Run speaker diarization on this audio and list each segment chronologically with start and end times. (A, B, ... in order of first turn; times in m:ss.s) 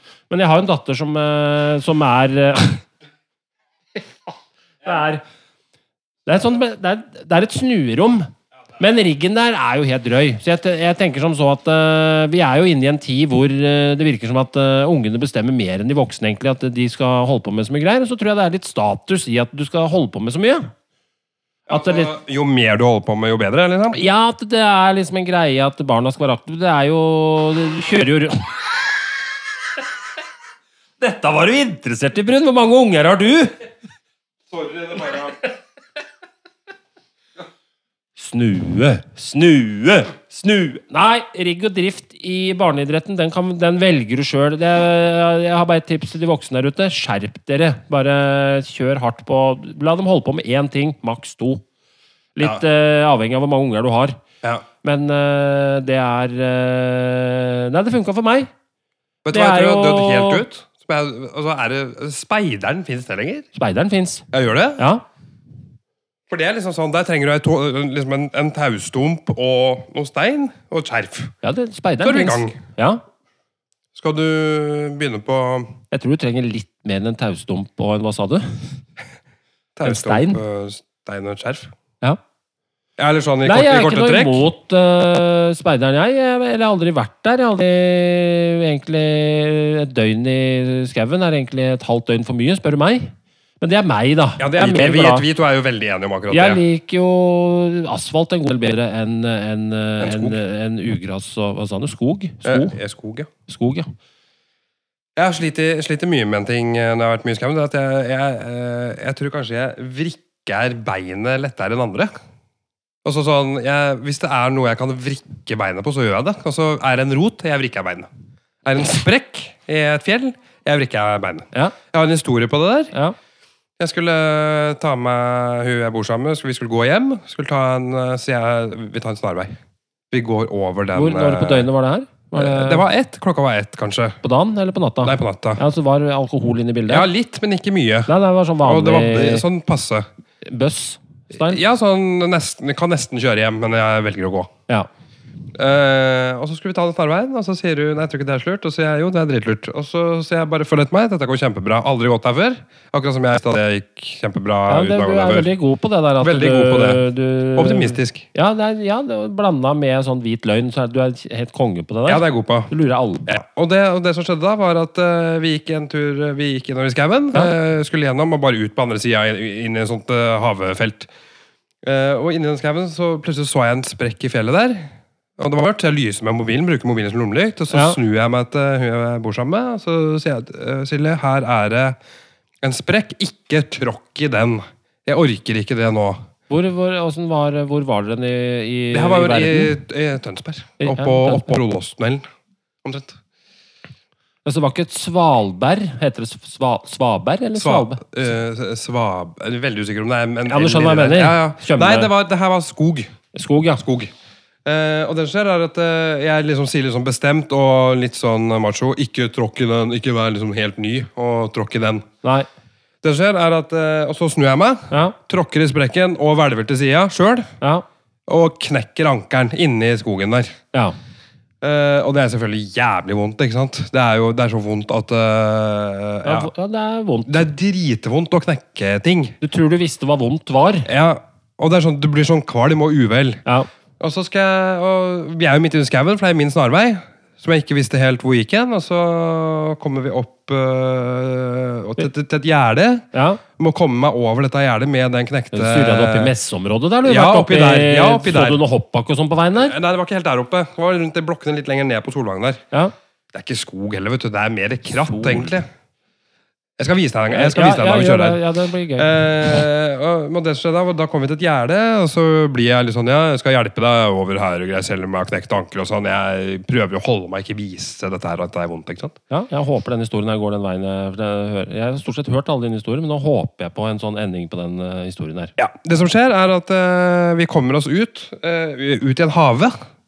0:00.3-0:02.8 A
0:04.8-0:05.2 A
0:06.3-0:20.7 A
0:21.7-0:22.1 A
0:21.7-0:24.1 B
0:23.9-0:28.6 A
0:31.0-0:33.6 A
0:34.5-0:35.3 B
0:38.2-0:51.6 A
0:52.4-0:54.2 A
0:54.8-0:58.5 A
0:59.2-1:03.5 B
0:59.3-1:00.4 A
1:03.6-1:04.3 A
1:04.3-1:04.8 B
1:04.8-1:05.0 A
1:06.3-1:11.3 B
1:11.4-1:13.0 A
1:12.0-1:12.6 B
1:13.9-1:15.7 B
1:15.9-1:18.7 A
1:19.8-1:21.7 B
1:19.8-1:20.4 A
1:23.0-1:24.4 B
1:23.4-1:35.2 A
1:34.4-1:36.6 B
1:36.3-1:42.8 A
1:40.0-1:40.4 B
1:42.4-1:43.3 B
1:43.5-1:43.9 A
1:45.2-1:52.1 B
1:53.0-1:58.1 B
1:58.6-2:02.9 B
2:03.8-2:09.6 B
2:10.1-2:11.7 B
2:10.9-2:12.8 A
2:12.4-2:14.2 B
2:14.2-2:17.1 A
2:15.0-2:15.6 B
2:16.9-2:20.1 B
2:18.1-2:19.5 A
2:20.4-2:21.6 A
2:21.3-2:24.5 B
2:25.6-2:35.5 B
2:34.7-2:43.3 A
2:36.2-2:37.0 B
2:37.6-2:38.3 B
2:42.1-2:42.7 B
2:43.3-2:51.1 B
2:51.8-3:02.0 B
2:57.7-2:58.0 A
3:02.6-3:06.2 B
3:06.5-3:09.8 A
3:08.9-3:12.2 B
3:10.8-3:11.6 A
3:12.8-3:13.2 B
3:14.4-3:18.1 A
3:17.6-3:23.1 B
3:20.5-3:22.1 A
3:23.3-3:23.8 A
3:23.8-3:24.1 B
3:24.6-3:32.1 B
3:33.0-3:37.5 B
3:34.9-3:35.2 A
3:38.3-3:40.6 B
3:41.6-3:46.5 B
3:46.2-3:47.5 A
3:47.3-3:49.4 B
3:49.4-3:50.9 A
3:50.8-3:53.4 B
3:54.0-4:03.1 B
4:03.1-4:03.4 A
4:03.6-4:06.3 B
4:05.5-4:09.8 A
4:07.0-4:08.6 B
4:09.6-4:12.6 B
4:13.3-4:15.7 B
4:15.0-4:15.6 A
4:16.8-4:18.4 B
4:17.3-4:19.2 A
4:19.0-4:29.2 B
4:29.3-4:35.5 A
4:35.6-4:39.8 B